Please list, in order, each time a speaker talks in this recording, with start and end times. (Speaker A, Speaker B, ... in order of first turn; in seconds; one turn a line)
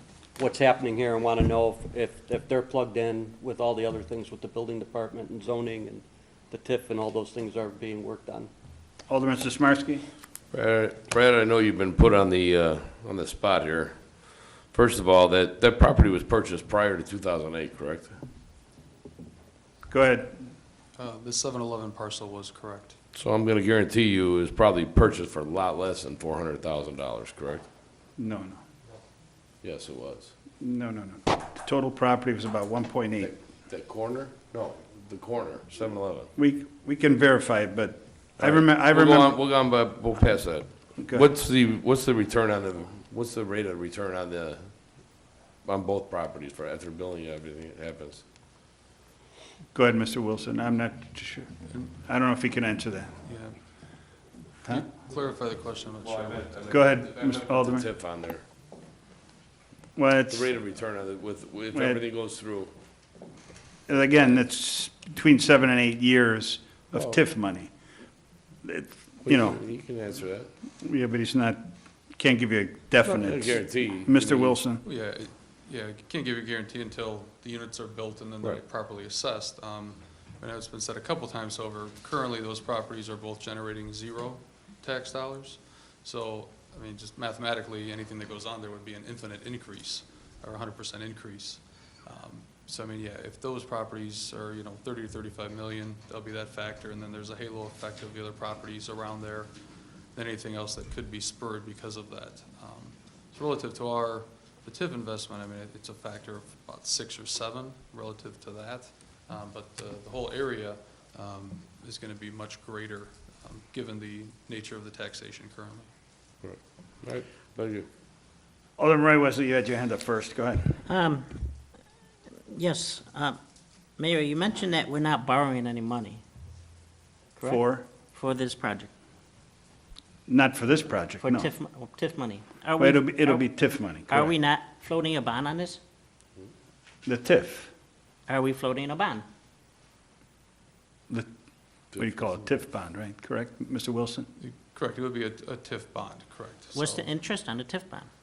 Speaker A: 0.4-8.5
Speaker B: 9.1-10.1
Speaker C: 10.5-14.0
Speaker C: 14.7-18.1
Speaker B: 19.9-20.4
Speaker D: 21.0-22.9
Speaker C: 23.1-27.6
Speaker B: 28.2-28.6
Speaker C: 29.6-30.3
Speaker B: 30.6-33.3
Speaker C: 33.2-36.3
Speaker B: 36.4-39.4
Speaker C: 38.4-44.7
Speaker B: 41.0-41.2
Speaker C: 45.6-48.2
Speaker B: 49.7-53.1
Speaker D: 53.3-53.5
Speaker D: 54.7-56.6
Speaker C: 56.5-58.4
Speaker B: 56.7-57.9
Speaker B: 60.0-60.5
Speaker C: 60.3-62.7
Speaker B: 61.7-62.0
Speaker B: 63.9-67.7
Speaker B: 68.6-69.6
Speaker C: 69.2-70.5
Speaker B: 70.8-74.8
Speaker C: 73.0-74.6
Speaker D: 74.8-99.5
Speaker D: 100.1-115.9
Speaker C: 116.4-117.9
Speaker B: 118.8-120.8
Speaker E: 120.8-121.5
Speaker E: 122.5-123.4
Speaker E: 124.0-126.2
Speaker E: 127.3-128.9
Speaker B: 127.4-127.8
Speaker B: 130.3-131.5
Speaker E: 131.2-133.5
Speaker B: 132.8-134.3
Speaker E: 134.1-135.8
Speaker B: 137.1-137.7
Speaker E: 138.3-139.2
Speaker C: 141.9-142.3
Speaker B: 141.9-144.3
Speaker D: 144.4-147.1
Speaker E: 146.7-148.1